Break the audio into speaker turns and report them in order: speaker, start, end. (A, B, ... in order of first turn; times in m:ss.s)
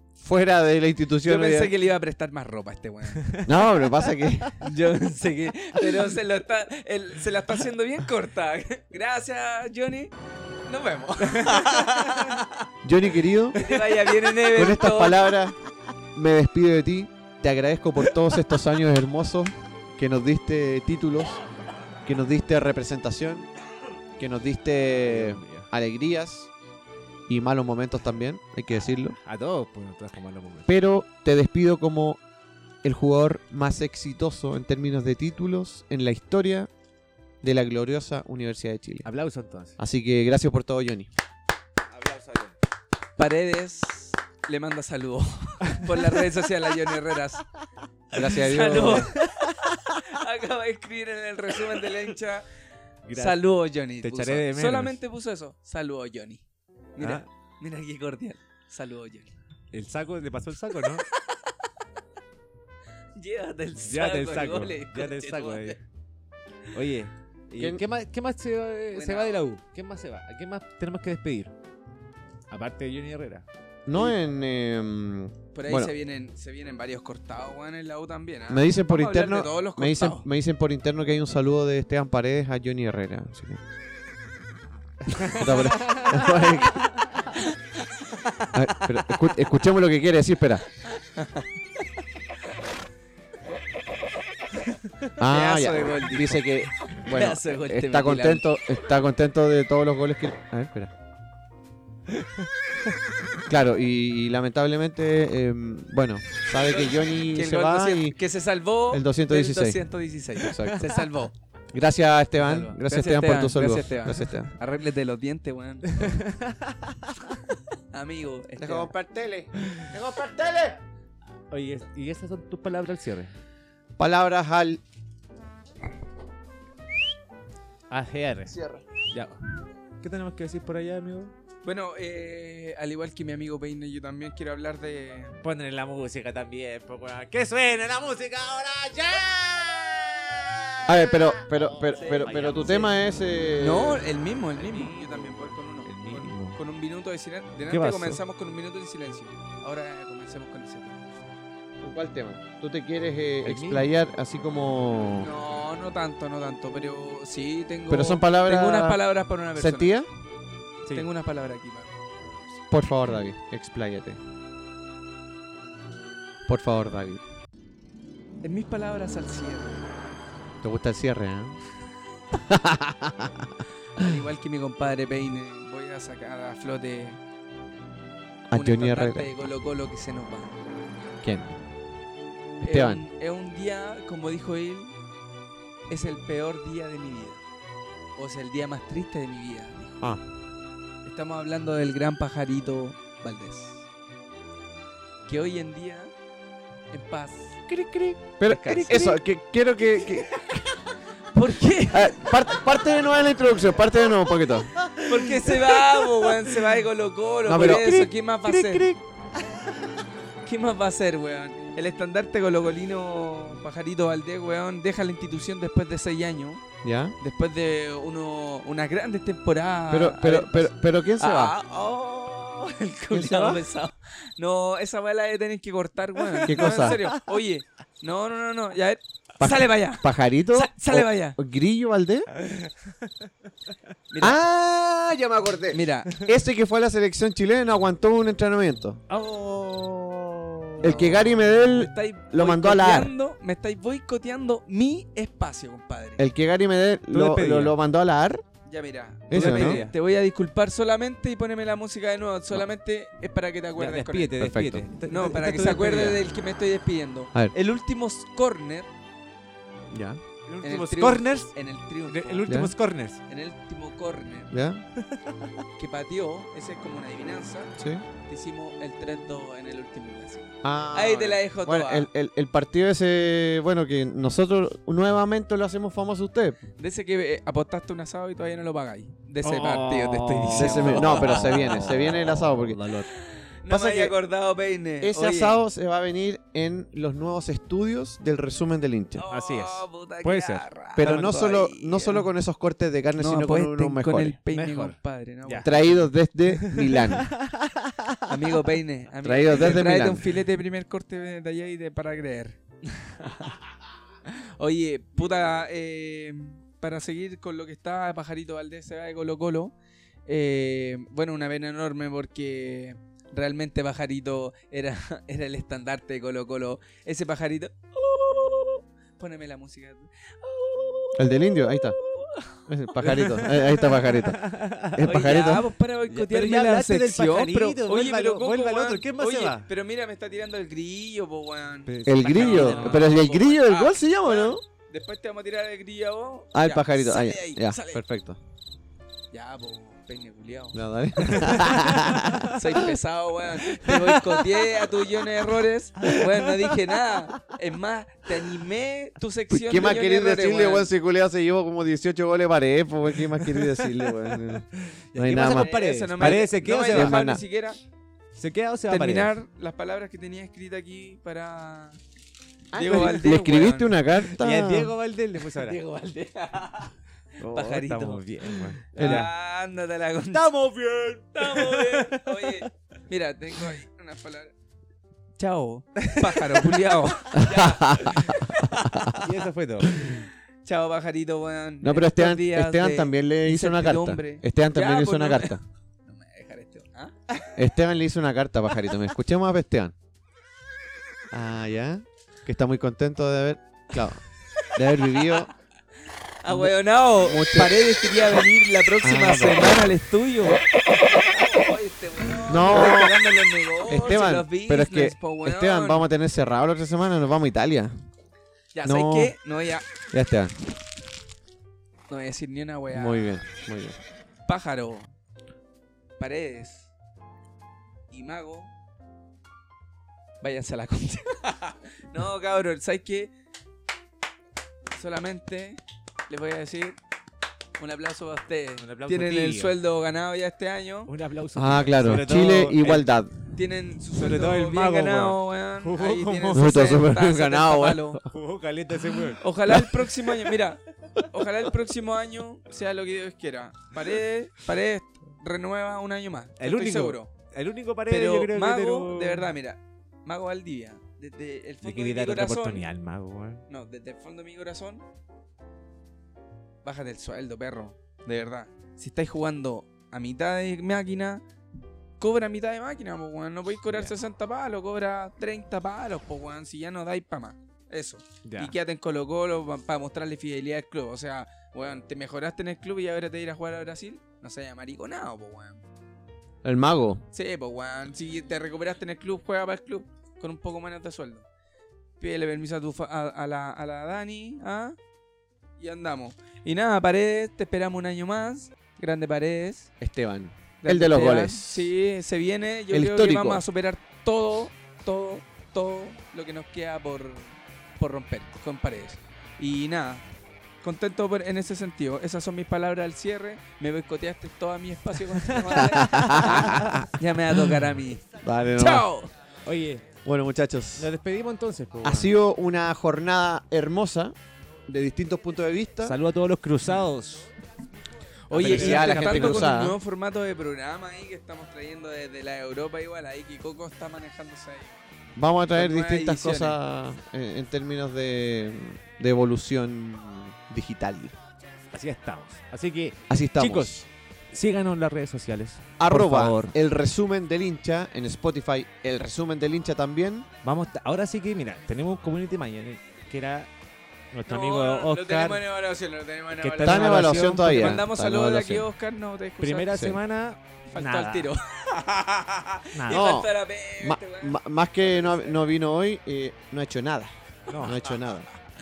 0:00.2-0:01.7 A
0:01.2-0:03.4 B
0:03.2-0:03.5 C
0:03.4-0:04.6 A
0:04.6-0:10.1 B
0:10.7-0:12.5 B
0:11.3-0:12.4 C
0:12.8-0:13.8 A
0:13.5-0:15.3 B
0:14.5-0:15.6 A
0:16.1-0:21.4 A
0:22.0-0:23.5 A
0:24.2-0:26.5 A
0:25.0-0:25.7 C
0:27.3-0:29.2 A
0:29.2-0:30.7 C
0:30.7-0:32.2 A
0:32.8-0:36.7 A
0:37.4-0:39.1 A
0:39.0-0:39.8 C
0:39.8-0:41.1 A
0:41.9-0:42.5 C
0:43.2-0:47.4 B
0:45.7-0:46.0 C
0:48.1-0:49.1 A
0:48.1-0:52.4 B
0:49.1-0:50.0 C
0:53.0-0:53.4 C
0:53.1-0:56.4 B
0:54.0-0:55.0 C
0:56.9-0:59.3 B
0:57.0-0:57.2 C
0:59.7-1:01.0 C
1:00.9-1:01.5 B
1:03.2-1:05.8 B
1:03.8-1:05.8 C
1:06.7-1:11.5 C
1:08.9-1:09.5 B
1:12.5-1:13.4 C
1:13.8-1:15.9 A
1:15.5-1:20.2 B
1:18.5-1:23.6 A
1:25.1-1:26.3 C
1:25.3-1:26.9 A
1:28.5-1:30.6 A
1:30.9-1:31.4 B
1:35.2-1:40.9 A
1:35.2-1:36.4 B
1:37.1-1:38.5 B
1:43.5-1:48.2 A
1:46.6-1:51.3 B
1:48.9-1:49.8 A
1:50.4-1:50.8 A
1:51.7-1:54.5 A
1:52.4-1:56.2 B
1:55.9-1:57.2 C
1:57.9-1:58.9 B
1:58.6-2:00.8 A
1:59.6-1:59.9 C
2:01.5-2:03.3 C
2:04.0-2:04.8 A
2:07.9-2:09.4 C
2:08.5-2:08.8 A
2:10.0-2:11.3 C
2:11.6-2:15.4 B
2:15.4-2:22.9 C
2:20.9-2:24.0 A
2:21.9-2:22.9 B
2:23.6-2:31.3 B
2:24.6-2:26.6 C
2:27.7-2:28.2 C
2:31.8-2:35.3 A
2:33.4-2:33.9 C
2:35.2-2:40.0 B
2:37.9-2:39.0 A
2:39.6-2:40.1 A
2:40.9-2:42.6 B
2:42.7-2:44.2 A
2:46.4-2:47.2 A
2:48.4-2:49.8 B
2:50.6-2:51.6 A
2:52.3-2:54.2 A
2:54.0-2:57.2 B
2:58.5-2:59.3 A
2:58.5-3:00.6 B
3:01.2-3:01.5 A
3:02.6-3:03.0 A
3:02.6-3:04.9 B
3:05.9-3:07.4 B
3:08.2-3:10.1 B
3:11.0-3:13.8 B
3:15.2-3:16.1 B
3:16.9-3:17.7 B
3:17.7-3:19.0 C
3:18.4-3:20.6 A
3:18.4-3:19.2 B
3:21.3-3:22.4 B
3:21.9-3:24.7 A
3:24.7-3:26.6 C
3:25.0-3:28.9 B
3:27.4-3:28.1 A
3:27.6-3:30.0 C
3:30.4-3:36.6 B
3:36.8-3:37.1 A
3:37.2-3:51.4 B
3:39.9-3:41.5 A
3:43.1-3:43.6 A
3:46.2-3:47.1 C
3:46.4-3:47.0 A
3:49.4-3:52.3 A
3:52.4-3:53.1 C
3:54.1-3:54.4 B
3:54.2-3:59.0 A
3:55.7-3:56.2 B
3:59.1-4:01.0 C
4:00.8-4:03.1 A
4:01.0-4:06.2 B
4:06.2-4:08.4 A
4:07.1-4:07.7 C
4:08.6-4:14.4 B
4:09.3-4:09.8 A
4:09.3-4:10.0 C
4:13.8-4:16.2 C
4:14.4-4:14.9 A
4:15.1-4:18.9 B
4:19.9-4:20.2 A
4:20.5-4:21.5 C
4:20.6-4:22.5 B
4:22.1-4:23.2 C
4:22.5-4:22.7 A
4:23.3-4:24.5 B
4:24.5-4:24.8 A
4:25.0-4:25.5 C
4:25.8-4:32.1 B
4:27.8-4:28.1 A
4:30.6-4:36.6 A
4:36.8-4:41.9 B
4:39.4-4:43.1 C
4:40.5-4:42.8 A
4:43.1-4:45.6 B
4:43.7-4:44.2 A
4:45.0-4:49.2 A
4:49.1-4:52.3 B
4:49.3-4:50.6 C
4:51.0-4:54.4 A
4:53.2-4:56.1 B
4:54.5-4:55.7 C
4:55.6-4:57.3 A
4:56.5-4:58.3 C
4:58.3-5:03.6 B
4:59.2-5:00.3 A
5:04.2-5:09.7 B
5:10.3-5:23.8 B
5:21.2-5:22.0 A
5:22.7-5:24.4 A
5:23.0-5:25.4 C
5:24.9-5:25.7 A
5:25.0-5:38.0 B
5:26.1-5:29.7 C
5:31.9-5:33.1 C
5:32.0-5:34.6 A
5:36.5-5:38.4 A
5:39.3-5:41.6 B
5:40.7-5:42.9 A
5:41.2-5:42.6 C
5:42.5-5:50.9 B
5:43.8-5:44.1 C
5:46.1-5:46.8 C
5:49.5-5:57.4 A
5:53.4-5:54.5 C
5:55.1-5:57.2 C
5:55.4-5:57.8 B
5:58.4-5:59.3 C
5:58.9-6:02.0 B
6:02.7-6:04.9 A
6:02.7-6:04.2 B
6:04.3-6:05.8 C
6:05.4-6:10.5 B
6:07.4-6:07.8 A
6:07.5-6:09.3 C
6:09.0-6:09.3 A
6:10.3-6:12.6 C
6:11.3-6:14.5 B
6:15.4-6:18.7 B
6:17.3-6:19.2 A
6:19.1-6:20.2 C
6:20.0-6:27.6 B
6:21.8-6:25.6 A
6:27.6-6:29.9 A
6:31.3-6:35.5 A
6:36.4-6:46.0 B
6:36.5-6:37.9 A
6:39.0-6:39.8 A
6:42.5-6:43.2 A
6:43.9-6:47.9 A
6:48.7-6:49.9 B
6:48.8-6:49.3 A
6:50.1-6:50.5 A
6:52.1-6:53.4 B
6:52.9-6:54.0 A
6:54.5-6:55.1 B
6:56.2-6:56.9 B
6:58.1-6:58.7 B
7:00.4-7:03.3 B
7:04.9-7:07.0 B
7:07.8-7:11.1 B
7:08.8-7:09.8 C
7:11.1-7:13.1 C
7:11.6-7:13.3 A
7:13.5-7:18.2 B
7:14.1-7:16.8 C
7:16.5-7:18.2 A
7:18.2-7:19.9 C
7:19.4-7:27.3 B
7:26.6-7:29.5 C
7:28.1-7:32.8 B
7:31.8-7:33.6 C
7:33.7-7:35.0 B
7:36.8-7:41.4 B
7:42.2-7:55.8 B
7:43.9-7:44.1 C
7:48.4-7:48.7 C
7:56.6-7:57.2 A
7:57.3-8:01.4 B
8:02.2-8:05.0 B
8:05.8-8:09.9 B
8:10.0-8:11.9 A
8:10.8-8:20.2 B
8:12.9-8:13.6 A
8:20.8-8:28.2 B
8:25.4-8:27.1 C
8:25.8-8:27.0 A
8:28.4-8:29.1 A
8:28.7-8:29.3 B
8:29.6-8:30.1 C
8:30.2-8:31.1 A
8:31.0-8:32.3 C
8:32.0-8:34.3 A
8:34.9-8:36.2 A
8:36.0-8:37.5 C
8:38.5-8:39.8 C
8:38.5-8:45.0 B
8:38.5-8:40.0 A
8:45.4-8:51.3 A
8:45.7-8:46.8 B
8:51.9-8:56.7 C
8:53.3-8:54.0 A
8:56.0-9:00.5 A
9:00.6-9:03.7 C
9:04.3-9:05.6 C
9:04.5-9:10.0 B
9:06.5-9:08.0 C
9:06.8-9:08.9 A
9:09.6-9:11.5 C
9:09.9-9:10.2 A
9:10.9-9:15.6 B
9:12.9-9:13.2 C
9:13.1-9:18.5 A
9:17.7-9:18.0 C